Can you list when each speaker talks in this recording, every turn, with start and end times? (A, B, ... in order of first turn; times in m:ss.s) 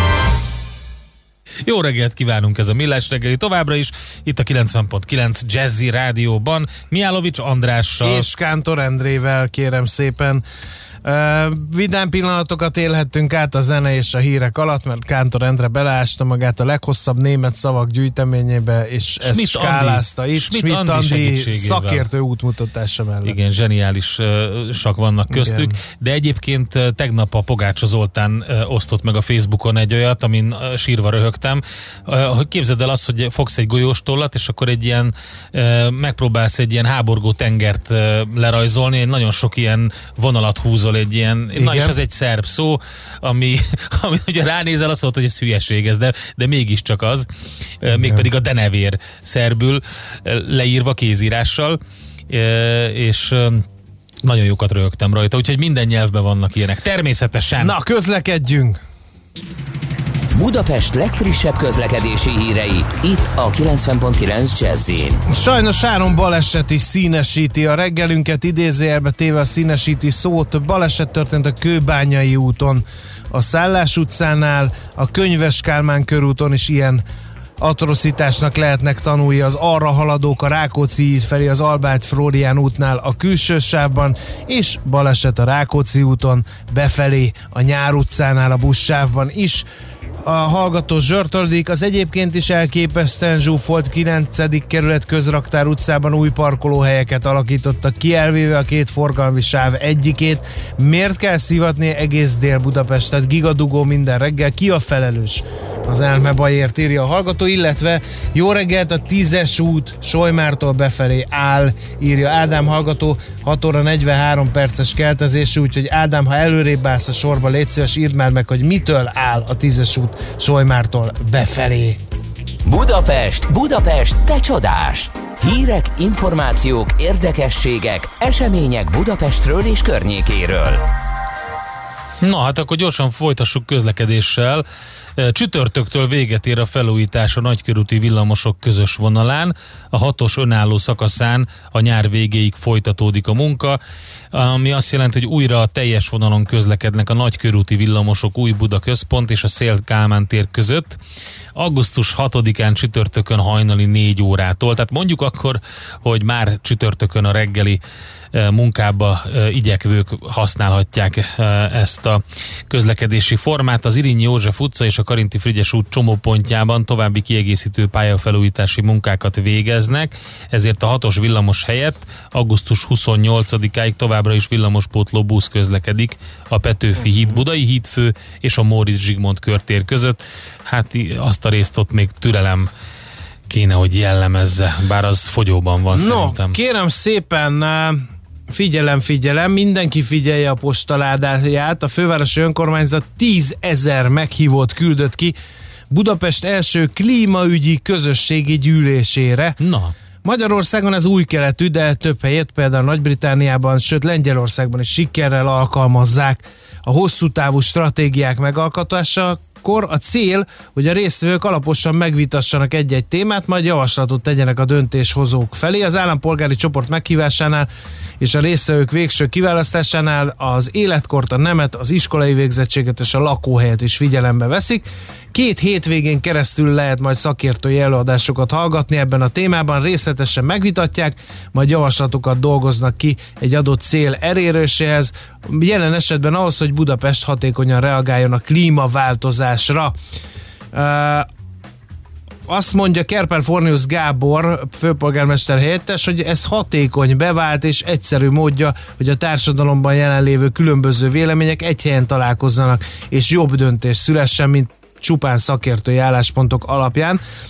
0:01.6-0:08.3 A
0:08.0-0:10.4 B
0:11.0-0:23.4 B
0:19.2-0:22.0 A
0:23.2-0:47.3 A
0:25.3-0:25.7 B
0:41.5-0:42.0 B
0:47.8-0:51.8 A
0:47.9-0:48.3 B
0:52.3-0:53.6 A
0:54.2-0:57.7 A
0:57.6-0:58.8 B
1:00.3-1:05.2 C
1:05.3-1:17.0 B
1:17.6-1:29.6 B
1:30.2-2:02.0 B
2:02.6-2:10.8 C
2:12.2-2:14.6 A
2:15.2-2:23.8 A
2:24.3-2:31.0 A
2:31.6-2:37.8 A
2:38.3-3:02.7 A
2:57.1-2:57.4 B
3:03.5-3:06.6 A
3:05.9-3:15.3 B
3:15.9-3:19.6 B
3:19.6-3:19.9 A
3:20.2-3:37.7 B
3:38.2-3:59.9 B
4:00.7-4:01.3 B
4:02.5-4:17.2 B